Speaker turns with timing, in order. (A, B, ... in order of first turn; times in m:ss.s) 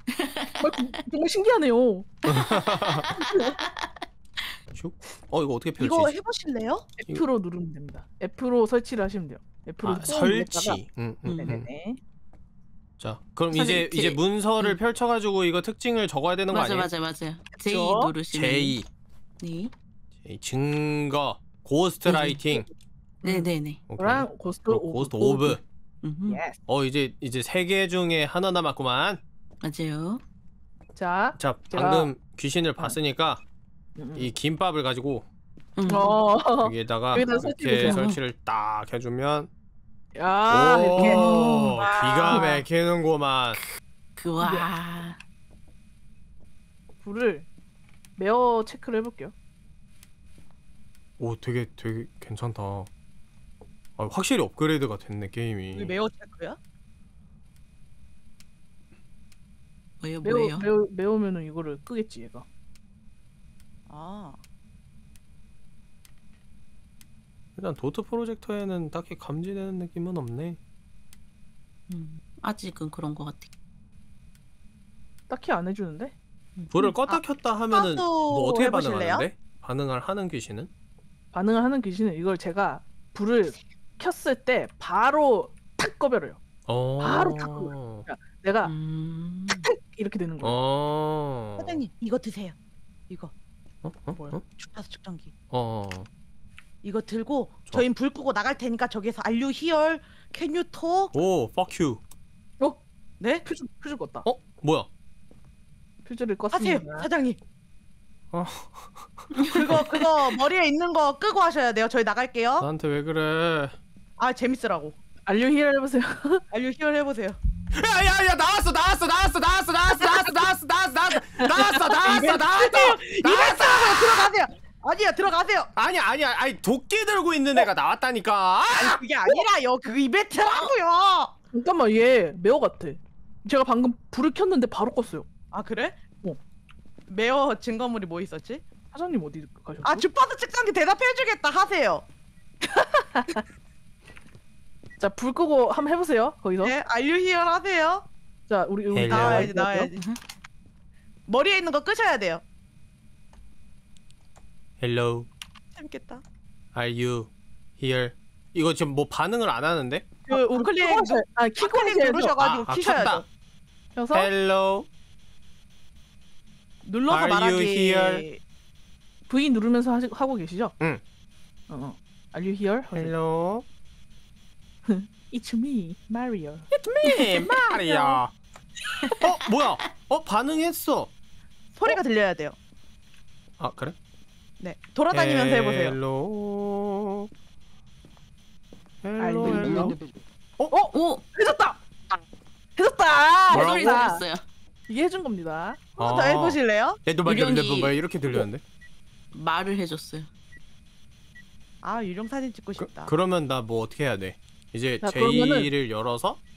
0:00.1-0:00.7 A
0:00.6-0:02.1 B
0:02.3-0:03.1 C
0:02.9-0:03.9 A
0:03.2-0:03.6 B
0:04.7-0:06.2 C
0:05.8-0:06.9 D
0:07.0-0:10.8 B
0:09.8-0:11.7 C
0:11.3-0:11.6 A
0:11.4-0:12.0 B
0:13.0-0:16.9 C
0:13.5-0:14.8 A
0:16.5-0:18.8 A
0:17.6-0:18.1 B
0:18.3-0:18.9 C
0:19.4-0:19.7 A
0:20.2-0:22.6 C
0:22.1-0:22.4 A
0:23.2-0:25.6 B
0:23.2-0:23.8 A
0:23.9-0:25.6 C
0:26.0-0:26.4 A
0:26.3-0:26.6 B
0:26.7-0:29.2 C
0:29.6-0:30.2 A
0:31.0-0:32.1 B
0:31.4-0:33.4 C
0:34.0-0:34.3 B
0:34.1-0:35.3 C
0:35.8-0:36.2 A
0:35.9-0:38.0 B
0:36.6-0:39.5 C
0:37.8-0:38.2 A
0:40.1-0:42.6 B
0:40.5-0:43.6 C
0:41.0-0:41.4 A
0:41.8-0:42.1 D
0:44.2-0:45.2 A
0:44.4-0:44.6 B
0:47.0-0:47.5 B
0:48.2-0:49.3 B
0:51.2-0:52.9 C
0:54.0-0:56.0 C
0:55.8-0:56.6 D
1:00.0-1:00.7 A
1:00.2-1:02.5 B
1:03.9-1:04.4 D
1:07.6-1:10.6 C
1:11.9-1:13.5 A
1:15.3-1:16.2 B
1:16.7-1:20.7 C
1:17.1-1:19.2 D
1:21.3-1:26.4 B
1:26.7-1:28.0 C
1:27.0-1:28.7 B
1:28.6-1:29.7 A
1:29.6-1:30.6 B
1:30.4-1:31.8 C
1:31.6-1:32.6 D
1:33.8-1:34.4 C
1:34.6-1:35.3 D
1:35.5-1:36.1 C
1:36.8-1:41.1 D
1:41.1-1:42.0 C
1:43.2-1:43.5 D
1:43.4-1:44.3 B
1:44.2-1:44.9 C
1:46.0-1:47.1 B
1:46.5-1:47.4 D
1:48.3-1:50.0 C
1:49.4-1:49.8 A
1:49.5-1:52.7 D
1:52.6-1:53.8 C
1:54.2-1:55.0 D
1:55.3-1:56.4 B
1:56.5-1:57.4 D
1:57.7-2:04.3 C
2:02.0-2:05.7 D
2:05.8-2:09.0 C
2:08.7-2:11.3 D
2:10.4-2:10.7 A
2:11.5-2:15.3 B
2:15.5-2:16.0 D
2:17.1-2:18.6 D
2:18.9-2:20.0 B
2:19.8-2:22.0 D
2:22.6-2:23.4 B
2:25.0-2:26.7 B
2:26.6-2:28.1 D
2:28.5-2:29.9 B
2:28.9-2:29.5 C
2:29.1-2:30.1 D
2:31.3-2:32.4 D
2:34.8-2:35.3 C
2:35.8-2:36.2 D
2:36.7-2:40.1 C
2:40.3-2:43.2 D
2:40.3-2:42.4 B
2:42.4-2:43.2 C
2:44.0-2:44.3 B
2:44.1-2:44.9 C
2:46.8-2:48.4 D
2:47.1-2:48.2 C
2:49.3-2:50.7 B
2:51.7-2:53.1 B
2:52.9-2:53.6 C
2:54.9-2:58.2 B
2:56.8-2:58.3 C
2:59.2-3:01.1 C
3:01.8-3:02.6 D
3:03.6-3:04.0 C
3:04.6-3:06.0 D
3:05.1-3:07.3 C
3:09.0-3:10.0 C
3:09.2-3:10.0 B
3:09.6-3:09.9 A
3:10.7-3:11.8 B
3:10.9-3:11.2 A
3:12.8-3:14.2 B
3:13.5-3:14.0 C
3:13.5-3:14.4 A
3:14.9-3:15.8 B
3:16.0-3:17.0 D
3:16.0-3:18.6 C
3:17.2-3:18.0 A
3:19.3-3:20.3 A
3:21.8-3:23.1 D
3:22.8-3:26.4 C
3:25.0-3:25.7 B